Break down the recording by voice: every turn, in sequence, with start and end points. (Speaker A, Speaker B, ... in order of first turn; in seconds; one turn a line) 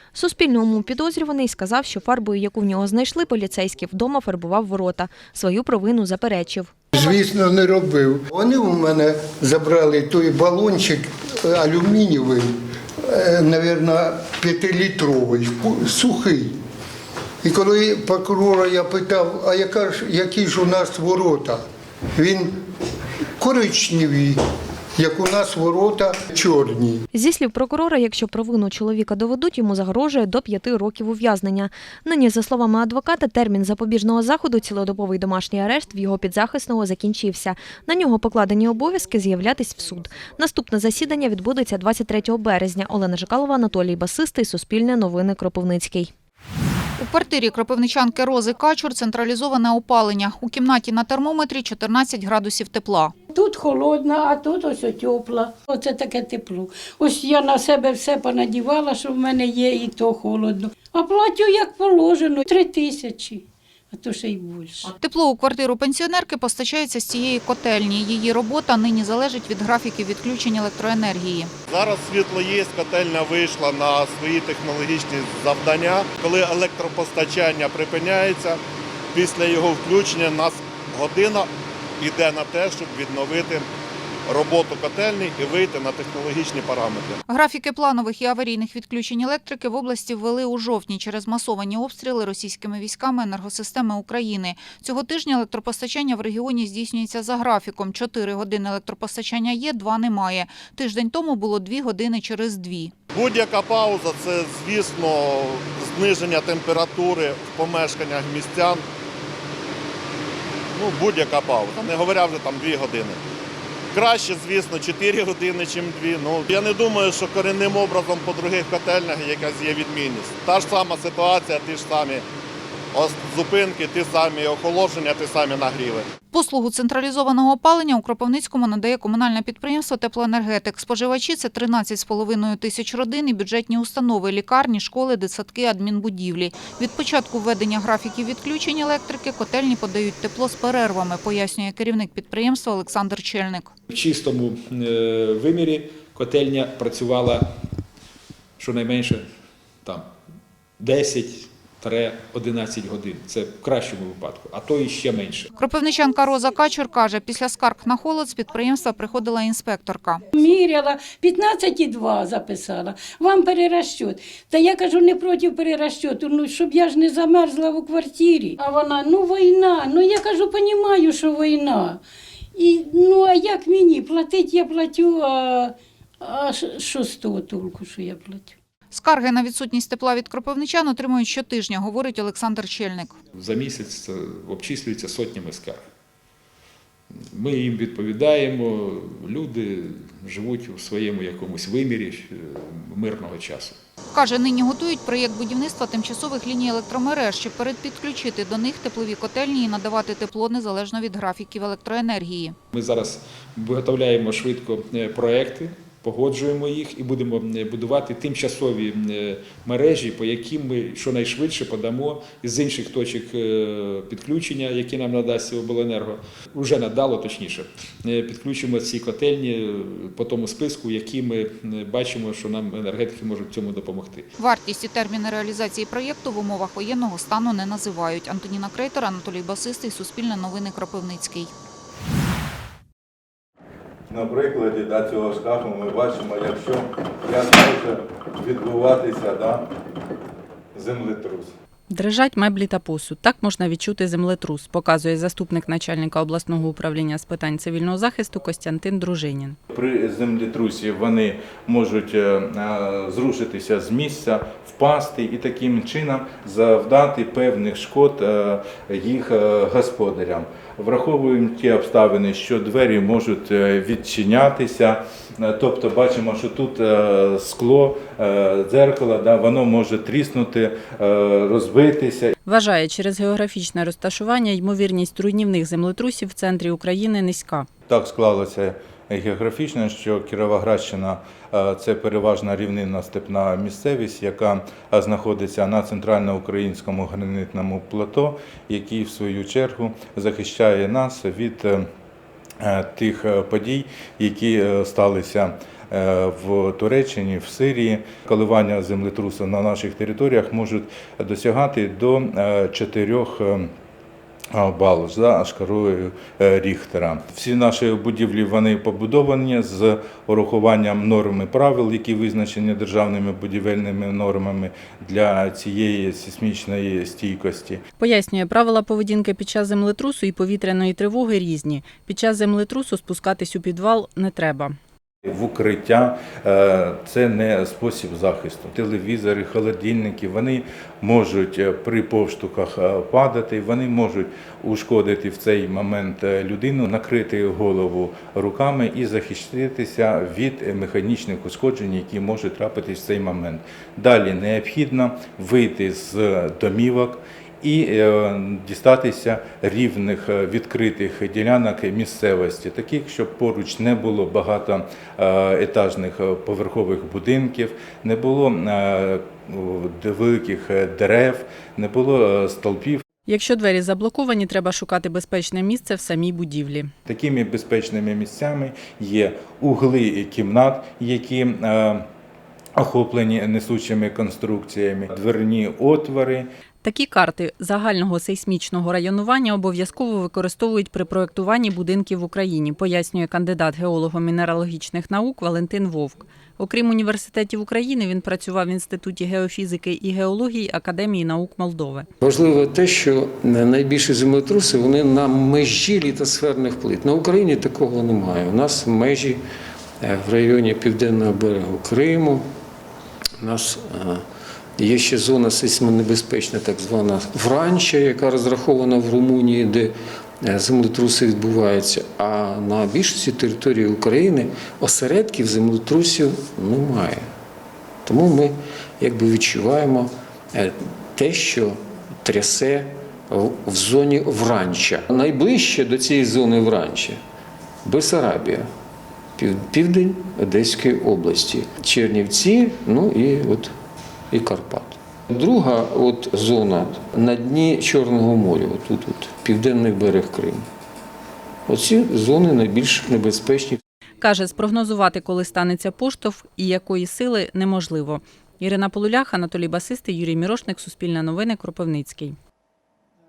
Speaker A: 0.1-6.7
Speaker B: 7.0-16.6
Speaker B: 17.4-21.6
Speaker B: 22.2-22.5
Speaker B: 23.4-24.4
Speaker B: 25.0-27.0
Speaker A: 27.1-46.1
Speaker C: 47.0-53.1
Speaker D: 53.3-64.9
Speaker C: 65.0-71.5
Speaker E: 71.7-78.6
Speaker E: 79.1-83.7
Speaker E: 84.3-87.2
Speaker C: 87.3-102.9
Speaker E: 103.1-108.8
Speaker E: 110.8-113.2
Speaker E: 113.9-122.2
Speaker E: 122.9-126.1
Speaker C: 126.3-143.7
Speaker F: 143.9-147.5
Speaker F: 148.6-149.2
Speaker F: 149.8-150.1
Speaker F: 150.8-155.5
Speaker C: 155.6-160.2
Speaker D: 160.3-172.0
Speaker D: 172.6-178.5
Speaker C: 178.9-183.1
Speaker F: 183.3-185.8
Speaker F: 187.3-193.8
Speaker C: 194.1-202.6
Speaker F: 202.7-224.3
Speaker C: 224.4-231.5
Speaker G: 234.1-239.7
Speaker G: 240.8-241.5
Speaker H: 241.9-249.6
Speaker G: 249.7-272.3
Speaker H: 272.4-277.7
Speaker G: 277.9-291.9
Speaker G: 292.6-303.7
Speaker G: 304.5-317.8
Speaker H: 318.0-324.8
Speaker G: 325.3-363.0
Speaker H: 363.3-366.9
Speaker G: 367.1-372.1
Speaker G: 372.8-376.5
Speaker H: 376.8-392.1
Speaker I: 392.2-399.4
Speaker I: 400.0-402.5
Speaker I: 403.4-404.2
Speaker I: 404.8-417.3
Speaker I: 418.1-427.2
Speaker I: 427.8-428.7
Speaker I: 429.4-433.8
Speaker I: 434.3-440.7
Speaker I: 441.7-443.8
Speaker H: 444.2-452.4